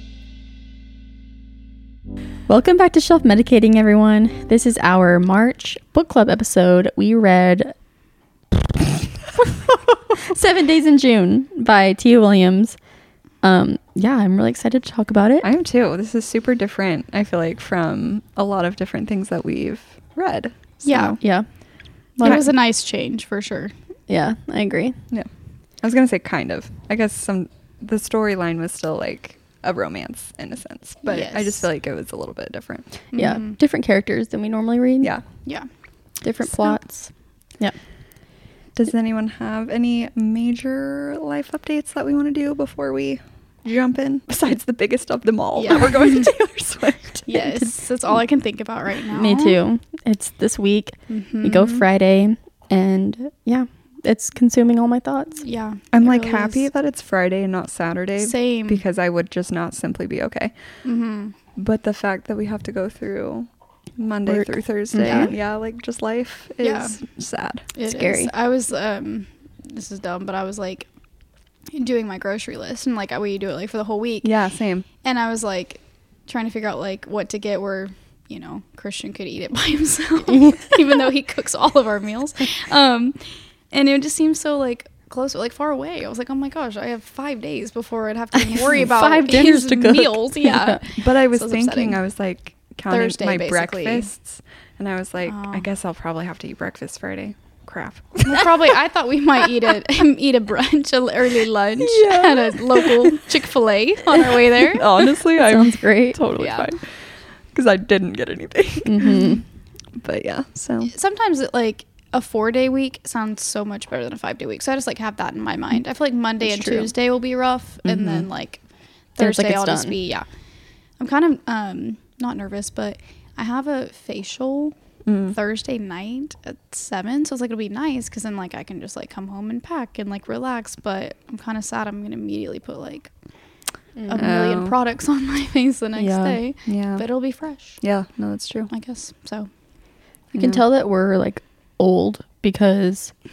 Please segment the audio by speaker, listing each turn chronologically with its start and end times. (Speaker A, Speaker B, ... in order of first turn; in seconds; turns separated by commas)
Speaker A: 2.5-7.7, Speaker A: 8.5-12.8, Speaker A: 13.4-15.5, Speaker B: 15.4-21.2, Speaker C: 20.8-21.2, Speaker A: 21.2-21.5, Speaker A: 22.2-22.4, Speaker C: 22.2-23.7, Speaker A: 24.1-25.0, Speaker B: 25.8-33.1, Speaker C: 31.1-31.7, Speaker C: 33.1-33.6, Speaker A: 33.1-35.1, Speaker A: 36.2-37.8, Speaker B: 38.8-47.3, Speaker C: 45.6-46.3, Speaker C: 47.3-49.6, Speaker A: 49.1-55.4, Speaker C: 51.1-51.8, Speaker C: 55.4-56.7, Speaker B: 55.9-60.5, Speaker C: 58.2-58.8, Speaker C: 60.9-61.4, Speaker B: 61.6-67.7, Speaker A: 64.3-65.3, Speaker C: 66.6-67.0, Speaker C: 67.7-70.9, Speaker A: 67.9-68.3, Speaker C: 71.7-74.3, Speaker B: 74.2-74.8, Speaker C: 75.0-92.0, Speaker A: 80.3-80.8, Speaker A: 88.5-90.8, Speaker B: 91.0-98.7, Speaker C: 92.9-94.1, Speaker C: 95.2-95.7, Speaker C: 98.3-104.9, Speaker B: 101.8-103.1, Speaker B: 104.6-106.9, Speaker A: 105.3-106.2, Speaker C: 106.4-106.7, Speaker B: 107.5-109.2, Speaker A: 108.8-109.4, Speaker B: 110.0-110.9, Speaker C: 110.8-118.6, Speaker A: 116.4-116.9, Speaker B: 117.8-118.3, Speaker C: 119.2-120.2, Speaker A: 119.2-120.0, Speaker C: 121.0-124.8, Speaker B: 125.1-125.4, Speaker C: 125.3-133.1, Speaker A: 134.0-134.3, Speaker C: 134.1-137.8, Speaker B: 134.2-134.8, Speaker A: 136.0-136.4, Speaker B: 136.7-137.1, Speaker B: 137.8-138.7, Speaker C: 138.7-139.5, Speaker B: 140.3-140.6, Speaker A: 140.3-143.1